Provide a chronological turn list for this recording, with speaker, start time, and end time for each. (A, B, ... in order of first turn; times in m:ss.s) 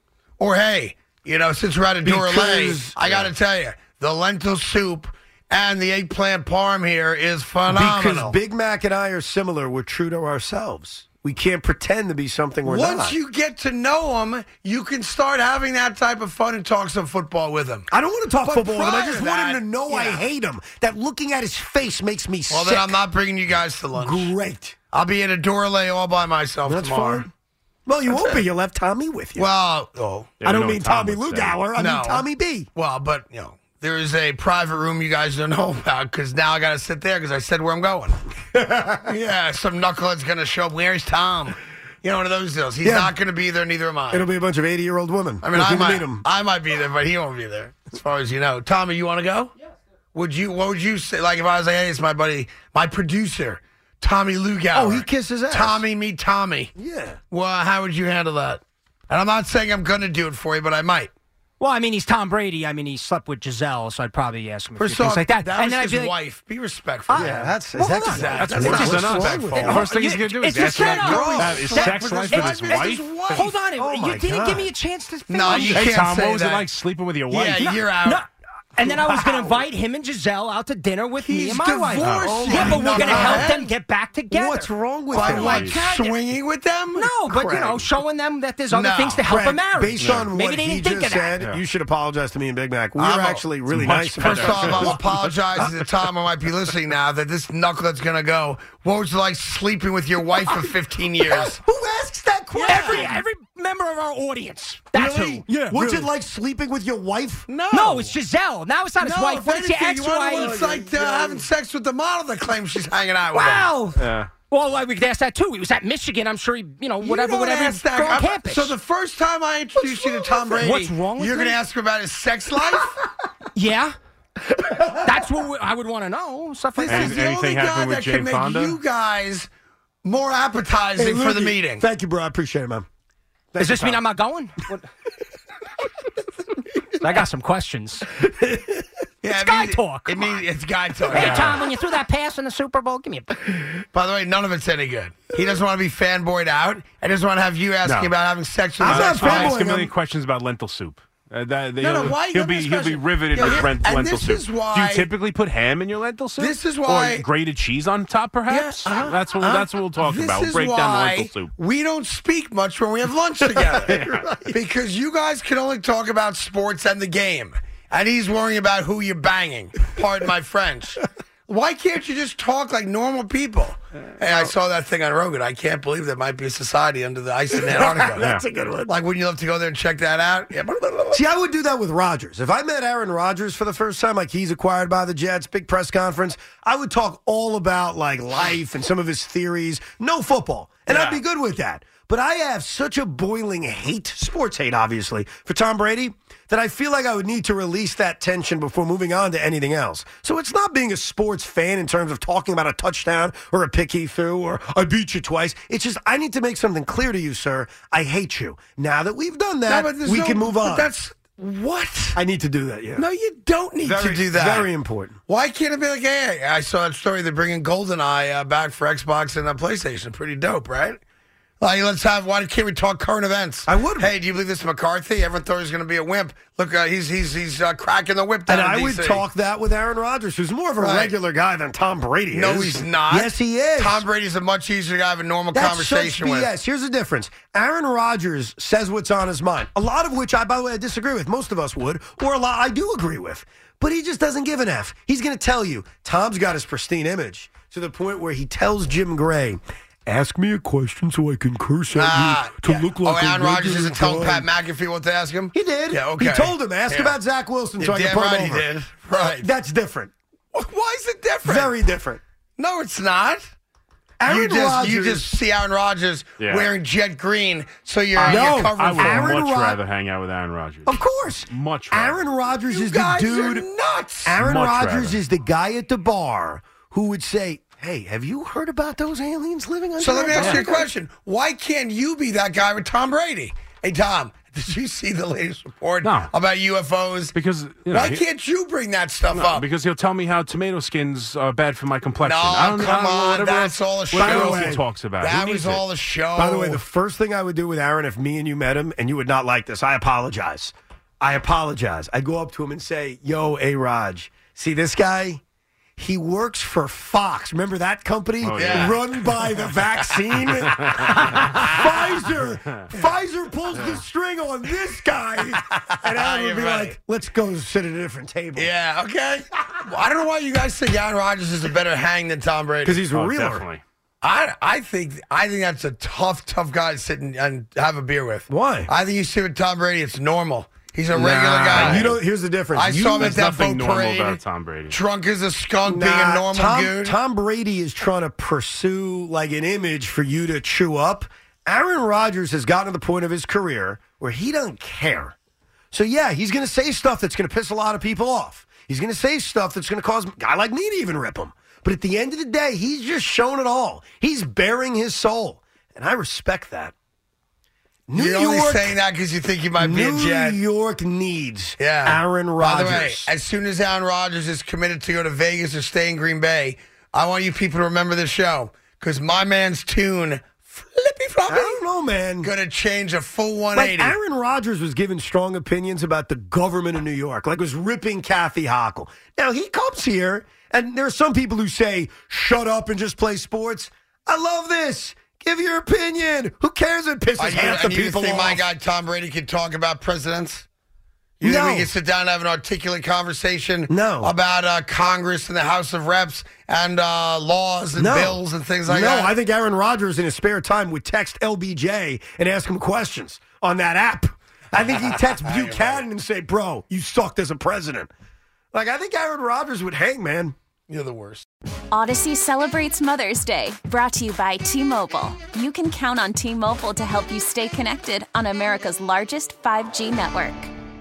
0:00.4-0:08.4 A
0:02.0-0:03.0 B
0:07.7-0:13.1 B
0:12.6-0:17.9 A
0:17.9-0:22.9 B
0:18.4-0:20.2 A
0:22.5-0:24.3 A
0:24.0-0:24.8 B
0:24.9-0:27.3 A
0:26.7-0:27.3 B
0:27.8-0:29.5 B
0:28.1-0:28.4 A
0:29.4-0:30.4 A
0:30.4-0:31.7 C
0:30.4-0:32.7 B
0:31.7-0:38.2 A
0:38.5-0:39.1 B
0:39.0-0:44.3 A
0:42.8-0:43.1 B
0:44.1-0:46.2 B
0:45.4-0:49.5 A
0:50.1-0:56.7 A
0:54.7-0:55.8 B
0:56.8-0:57.2 B
0:57.3-1:01.1 A
1:01.6-1:06.1 D
1:04.8-1:07.5 A
1:07.1-1:16.0 D
1:07.1-1:09.9 B
1:08.0-1:09.9 A
1:08.4-1:13.1 C
1:10.5-1:13.5 A
1:10.9-1:11.8 B
1:13.3-1:14.7 B
1:15.3-1:16.7 A
1:15.5-1:17.7 C
1:17.3-1:18.2 A
1:17.4-1:26.1 D
1:18.8-1:19.6 B
1:21.2-1:23.7 A
1:22.0-1:23.5 B
1:22.0-1:22.4 C
1:24.3-1:25.7 B
1:25.1-1:27.1 A
1:25.4-1:25.8 C
1:27.0-1:31.4 D
1:27.3-1:27.9 B
1:28.7-1:29.2 A
1:29.2-1:35.0 B
1:30.0-1:30.3 C
1:33.0-1:33.5 A
1:33.7-1:35.4 C
1:34.1-1:41.6 A
1:40.5-1:43.2 B
1:42.6-1:46.1 D
1:42.6-1:43.2 A
1:44.9-1:47.5 B
1:47.5-1:48.1 A
1:47.7-1:50.7 D
1:49.0-1:53.7 A
1:50.3-1:51.4 B
1:53.3-1:58.7 D
1:54.0-1:54.3 C
1:57.0-2:02.9 A
2:00.5-2:01.6 D
2:03.5-2:03.9 D
2:05.0-2:07.2 D
2:06.8-2:09.5 A
2:06.9-2:08.8 C
2:10.0-2:11.8 A
2:11.0-2:12.8 B
2:13.5-2:14.0 B
2:13.6-2:14.8 D
2:17.0-2:18.2 D
2:19.2-2:21.6 A
2:19.3-2:20.4 D
2:21.1-2:23.6 D
2:21.2-2:21.6 C
2:23.9-2:29.6 A
2:27.8-2:28.1 C
2:28.8-2:29.9 B
2:28.8-2:41.5 C
2:31.8-2:35.1 A
2:36.4-2:37.2 A
2:38.5-3:01.2 A
2:43.7-2:44.4 B
2:43.9-2:44.2 C
2:57.5-2:58.9 B
3:01.1-3:30.9 B
3:10.9-3:11.2 A
3:29.7-3:32.2 A
3:32.2-3:33.0 B
3:33.0-3:34.7 A
3:33.8-3:35.2 B
3:35.3-3:41.0 A
3:41.6-3:49.2 A
3:43.7-3:44.1 B
3:48.5-3:54.0 B
3:50.8-3:51.1 A
3:52.3-3:56.5 A
3:55.5-4:14.5 B
4:11.9-4:17.2 A
4:15.5-4:18.6 B
4:17.8-4:19.5 A
4:19.4-4:20.1 B
4:20.5-4:21.7 A
4:21.4-4:22.2 B
4:22.6-4:23.5 A
4:24.2-4:25.3 B
4:24.2-4:29.4 A
4:26.4-4:26.7 C
4:28.2-4:32.2 C
4:28.2-4:29.8 B
4:30.8-4:33.6 B
4:32.7-4:34.4 A
4:34.2-4:40.9 B
4:34.4-4:35.2 C
4:40.0-4:47.3 A
4:40.3-4:40.6 C
4:46.0-4:46.3 C
4:47.3-4:48.2 C
4:47.9-4:49.7 A
4:49.3-4:55.8 C
4:52.2-4:56.8 A
4:54.1-4:54.8 B
4:56.4-5:05.4 B
5:06.0-5:18.7 B
5:08.4-5:09.2 C
5:08.5-5:09.0 A
5:10.1-5:10.4 A
5:10.6-5:11.7 C
5:11.1-5:11.8 A
5:15.5-5:17.0 A
5:18.6-5:23.0 A
5:22.8-5:23.6 B
5:23.1-5:23.8 C
5:24.2-5:32.2 A
5:28.5-5:28.9 B
5:31.1-5:33.4 B
5:31.2-5:32.2 C
5:32.7-5:37.2 A
5:33.2-5:35.0 C
5:35.8-5:45.3 B
5:45.9-5:56.9 B
5:58.1-5:59.0 B
5:58.1-6:00.6 A
5:59.8-6:03.3 B
6:01.8-6:11.8 A
6:11.5-6:12.5 B
6:12.4-6:14.2 A
6:13.7-6:28.6 B
6:27.4-6:30.6 A
6:31.4-6:39.3 A
6:31.4-6:31.9 B
6:33.9-6:34.3 B
6:38.0-6:48.1 B
6:45.3-6:46.0 A
6:48.7-6:50.5 B
6:50.9-6:51.4 A
6:51.9-7:00.7 E